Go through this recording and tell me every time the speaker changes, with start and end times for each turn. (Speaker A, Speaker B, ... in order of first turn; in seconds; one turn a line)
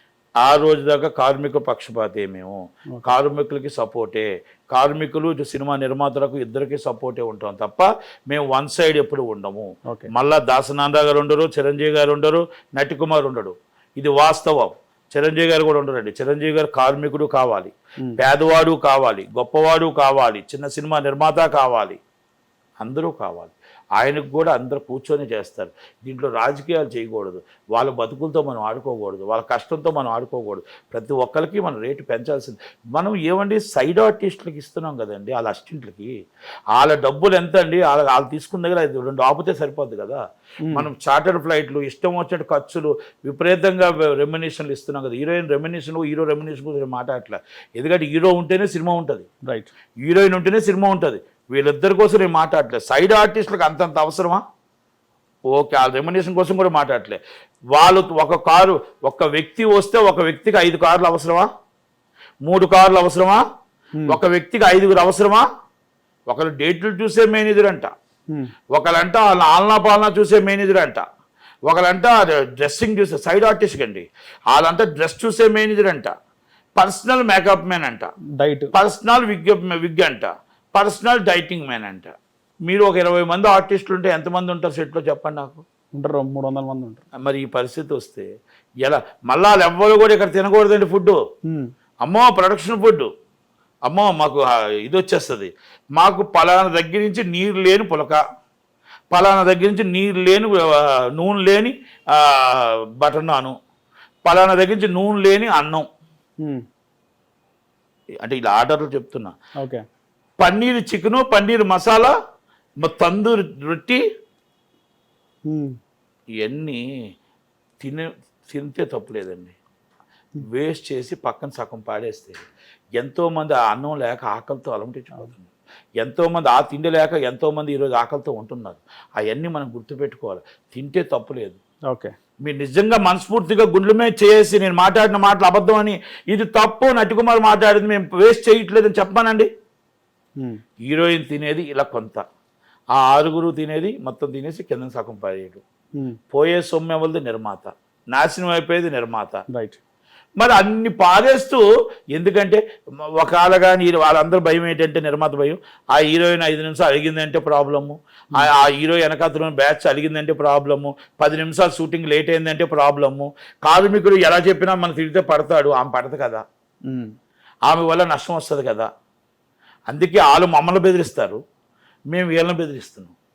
Speaker A: 0.4-22.0
Speaker A: 22.8-36.1
Speaker A: 36.7-40.2
Speaker A: 40.7-49.3
Speaker A: 50.0-54.4
Speaker A: 55.5-57.2
Speaker A: 57.7-61.5
Speaker A: 62.5-63.4
Speaker A: 64.1-65.4
Speaker A: 66.3-67.9
Speaker A: 68.7-71.0
Speaker A: 71.7-76.1
Speaker A: 76.8-78.1
Speaker B: 78.4-78.7
Speaker A: 78.7-82.1
Speaker A: 82.7-85.6
Speaker B: 86.0-87.0
Speaker A: 87.2-88.3
Speaker A: 88.8-91.2
Speaker A: 92.0-93.1
Speaker A: 93.9-98.2
Speaker A: 99.1-103.5
Speaker A: 104.2-105.9
Speaker A: 108.2-109.3
Speaker A: 110.4-112.1
Speaker A: 112.8-114.0
Speaker B: 115.5-115.7
Speaker A: 116.4-116.8
Speaker A: 117.8-119.5
Speaker A: 120.4-122.4
Speaker A: 123.0-131.6
Speaker A: 132.4-139.5
Speaker A: 140.8-142.2
Speaker A: 142.9-145.6
Speaker A: 146.3-149.4
Speaker B: 149.5-149.8
Speaker A: 150.4-151.6
Speaker A: 152.1-152.6
Speaker A: 153.1-166.4
Speaker A: 167.7-168.9
Speaker A: 169.9-171.4
Speaker A: 172.1-173.1